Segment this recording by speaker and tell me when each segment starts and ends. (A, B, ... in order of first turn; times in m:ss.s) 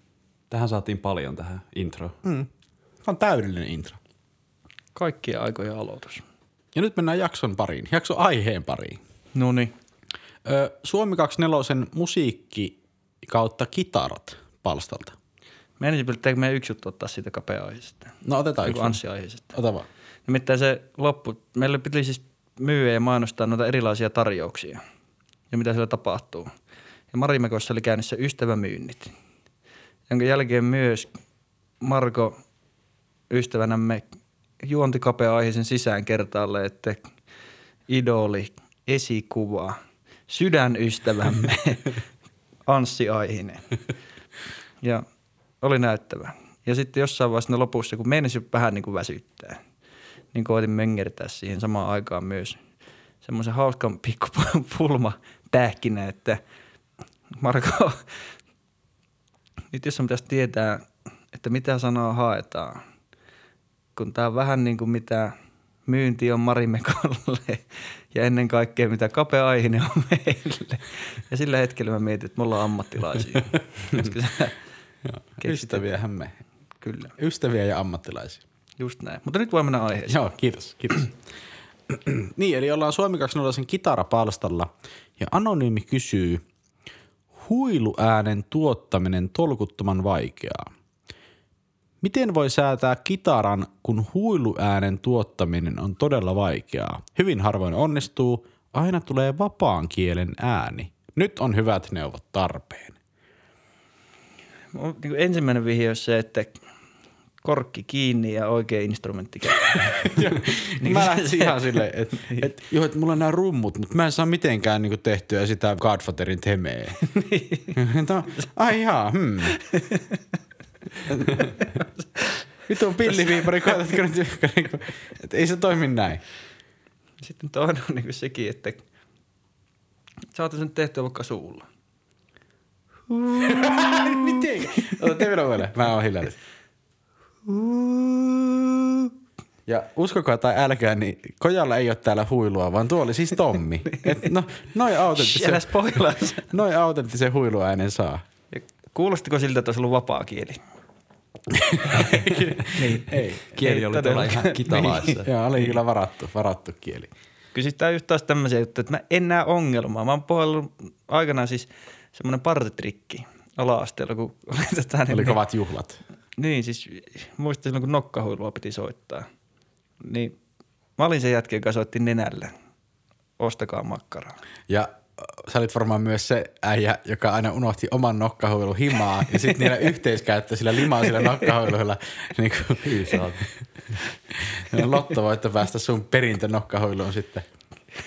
0:00.5-0:02.2 A
0:02.2-0:02.5 B
0:03.0-0:04.0 B
0:04.9-0:06.2 C
0:06.7-0:09.0 B
0:09.3-0:09.7 C
0:10.4-0:15.1 B
0:15.8-0:19.6 C
0:18.2-0:19.0 B
0:19.5-0:19.8 B
0:20.3-0:24.8 C
0:25.5-0:26.5 C
0:27.1-0:29.1 C
0:30.1-0:31.1 C
0:31.8-0:32.4 C
0:33.3-0:34.1 C
0:34.6-0:37.1 C
0:37.9-0:39.8 C
0:40.3-0:42.0 C
0:42.7-0:43.7 C
0:45.6-0:49.6 C
0:50.3-0:52.6 C
0:53.2-0:56.4 C
0:57.3-0:58.1 C
0:59.7-1:02.8 C
1:03.9-1:05.3 C
1:05.8-1:14.6 C
1:15.0-1:16.4 B
1:15.4-1:15.8 C
1:16.8-1:17.1 C
1:17.2-1:18.4 B
1:18.8-1:20.2 C
1:20.1-1:21.1 B
1:21.9-1:26.4 B
1:27.3-1:30.7 B
1:32.0-1:43.0 B
1:44.7-1:46.6 C
1:47.4-1:52.4 C
1:50.0-1:57.0 B
1:57.0-1:57.8 C
1:57.7-1:59.6 B
1:59.6-2:00.2 C
2:01.1-2:01.5 B
2:01.2-2:01.6 C
2:02.7-2:06.2 B
2:03.1-2:03.7 C
2:07.2-2:08.8 C
2:10.3-2:11.6 C
2:13.1-2:15.0 C
2:13.4-2:16.4 B
2:17.4-2:19.1 C
2:19.7-2:28.2 B
2:25.1-2:26.5 C
2:28.5-2:30.6 C
2:31.5-2:33.4 B
2:31.9-2:35.2 C
2:33.5-2:35.3 A
2:35.2-2:37.1 B
2:37.5-2:45.4 C
2:45.1-2:46.0 B
2:46.4-2:49.3 C
2:50.0-2:50.4 C
2:51.0-2:52.5 C
2:53.4-2:54.4 C
2:54.7-3:03.2 B
3:02.8-3:03.5 A
3:04.3-3:07.4 B